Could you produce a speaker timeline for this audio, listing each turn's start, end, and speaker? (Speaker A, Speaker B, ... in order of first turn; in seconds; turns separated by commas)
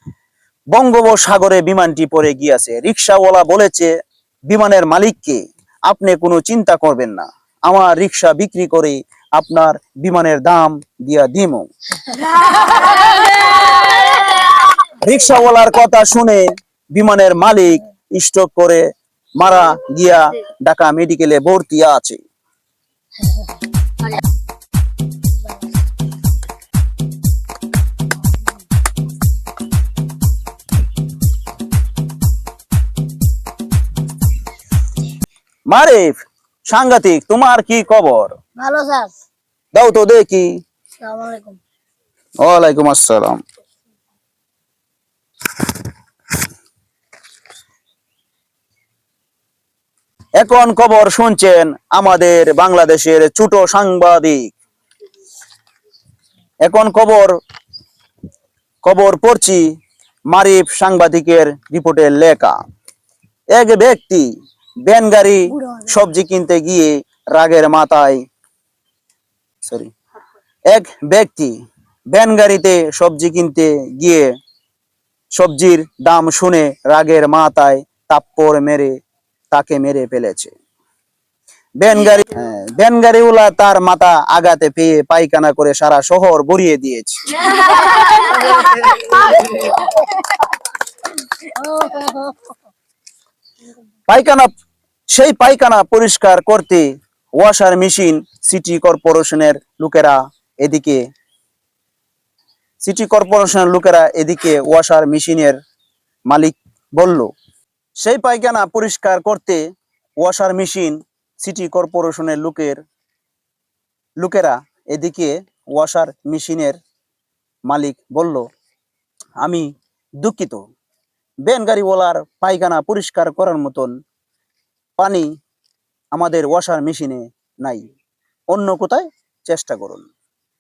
Speaker A: 0.7-3.9, Speaker A: 4.5-11.7, Speaker A: 14.9-18.8, Speaker A: 19.4-22.2, Speaker A: 35.7-36.2, Speaker A: 36.7-38.4, Speaker B: 38.6-39.1, Speaker A: 39.8-40.5, Speaker B: 41.0-41.6, Speaker A: 42.4-43.4, Speaker A: 50.4-54.5, Speaker A: 56.7-57.4, Speaker A: 58.8-59.6, Speaker A: 60.3-62.6, Speaker A: 63.5-64.3, Speaker A: 64.9-68.2, Speaker B: 65.6-65.9, Speaker A: 69.6-69.9, Speaker A: 70.7-71.6, Speaker A: 72.1-74.3, Speaker A: 75.3-78.9, Speaker A: 79.5-80.5, Speaker A: 81.8-87.4, Speaker B: 89.5-89.9, Speaker B: 91.4-92.4, Speaker A: 94.1-94.5, Speaker A: 95.1-96.9, Speaker A: 97.4-101.0, Speaker A: 102.8-105.6, Speaker A: 106.3-107.3, Speaker A: 108.0-109.6, Speaker A: 110.2-112.8, Speaker A: 114.2-116.8, Speaker A: 117.7-118.5, Speaker A: 119.4-119.7, Speaker A: 120.2-120.6, Speaker A: 121.5-124.0, Speaker A: 125.0-125.3, Speaker A: 126.1-127.9, Speaker A: 128.5-130.1